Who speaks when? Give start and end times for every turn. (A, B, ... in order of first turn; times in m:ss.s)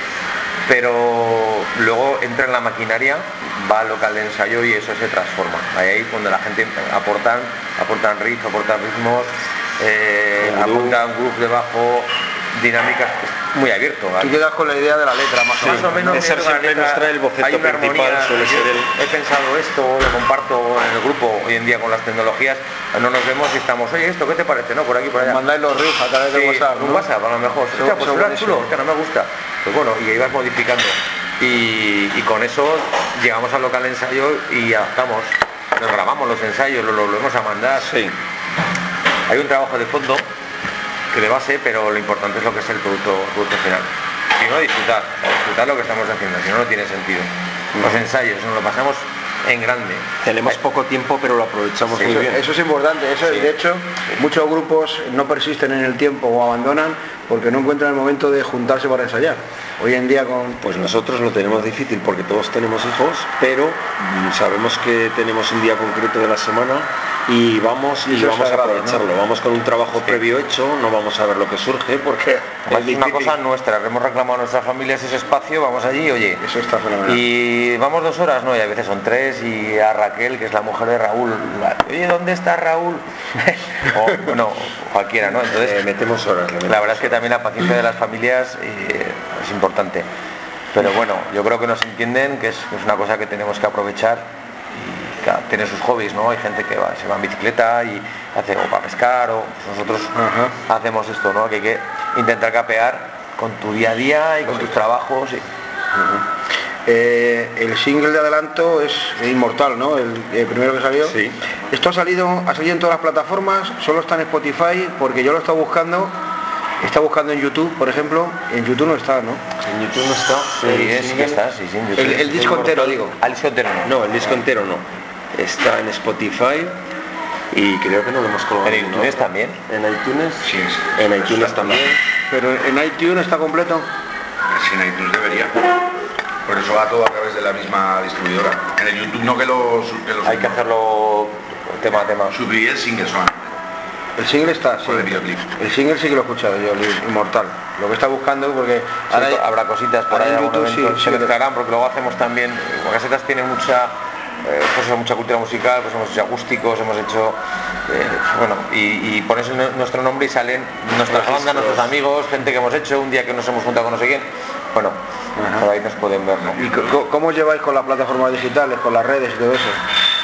0:00.7-0:14.4 A
0:10.4-0:11.0 B
0:14.2-0:16.3 C
0:15.6-0:25.4 A
0:15.6-0:18.9 B
0:25.2-0:27.0 C
0:26.3-0:38.0 A
0:27.8-0:28.7 C
0:37.8-0:38.2 B
0:39.3-0:40.2 A
0:41.1-0:50.6 A
0:50.2-0:52.4 B
0:52.0-1:00.6 C
1:00.6-1:13.4 B
1:08.0-1:09.0 C
1:12.7-1:16.4 A
1:16.4-1:17.2 C
1:17.0-1:25.8 A
1:25.5-1:27.2 B
1:26.7-1:30.1 A
1:30.7-1:40.1 A
1:40.1-1:40.5 C
1:40.6-1:45.4 A
1:46.0-1:46.2 C
1:46.9-1:51.2 C
1:51.0-1:51.4 B
1:51.7-1:56.2 C
1:56.8-1:59.4 C
1:59.6-2:01.4 B
2:00.4-2:03.9 A
2:02.0-2:03.1 C
2:03.8-2:06.8 B
2:07.5-2:11.9 B
2:08.6-2:09.6 A
2:10.4-2:11.9 D
2:12.3-2:13.9 C
2:14.5-2:15.6 D
2:16.5-2:20.6 D
2:20.2-2:22.3 A
2:22.3-2:23.6 D
2:24.2-2:29.4 C
2:24.8-2:25.5 D
2:29.1-2:45.0 A
2:30.1-2:31.3 C
2:41.1-2:41.9 B
2:45.4-2:45.6 C
2:45.6-2:46.6 A
2:46.6-2:49.8 C